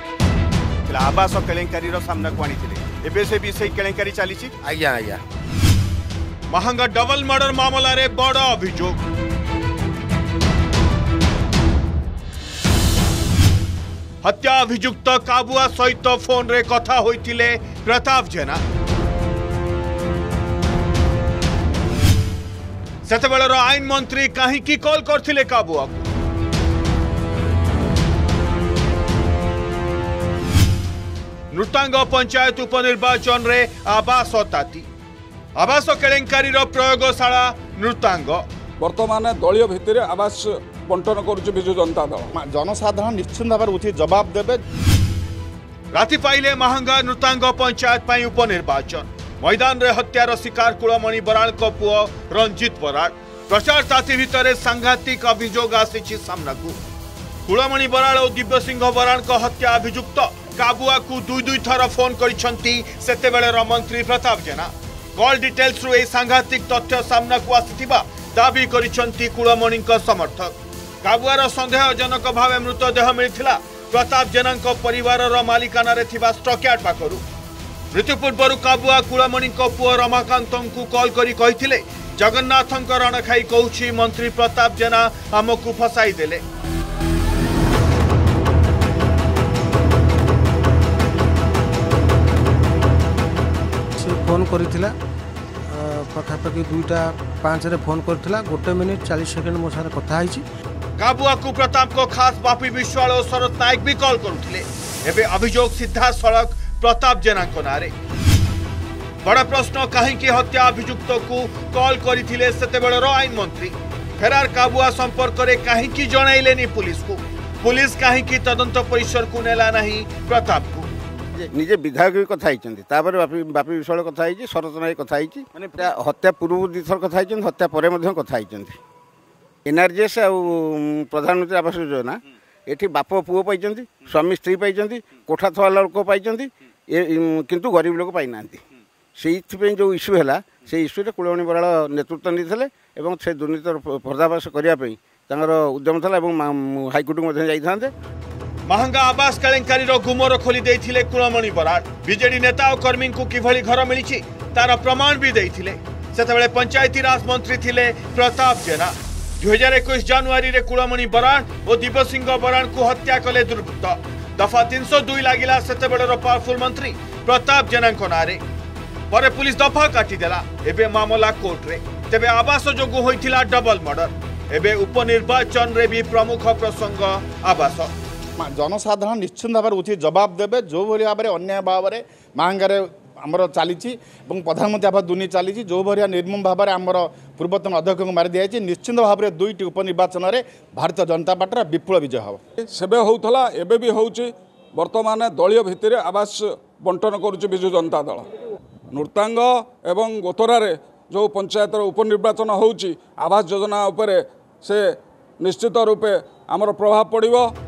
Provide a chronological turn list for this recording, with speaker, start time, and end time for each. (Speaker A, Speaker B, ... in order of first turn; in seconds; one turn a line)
Speaker A: 0.9-4.6
Speaker A: 6.5-9.0
Speaker A: 14.2-18.6
Speaker A: 23.1-26.1
Speaker A: 31.5-34.9
Speaker A: 35.6-38.4
Speaker B: 38.8-42.3
Speaker C: 42.4-44.6
Speaker A: 45.9-56.8
Speaker A: 57.5-77.2
Speaker A: 77.9-86.4
Speaker D: 94.0-95.0
Speaker D: 95.7-100.5
Speaker A: 101.0-107.9
Speaker A: 109.2-120.9
Speaker E: 121.4-128.8
Speaker E: 129.7-138.6
Speaker E: 139.2-147.9
Speaker A: 148.7-168.4
Speaker A: 169.1-177.9
Speaker C: 178.4-192.4
Speaker B: 192.7-198.3
Speaker B: 198.9-207.5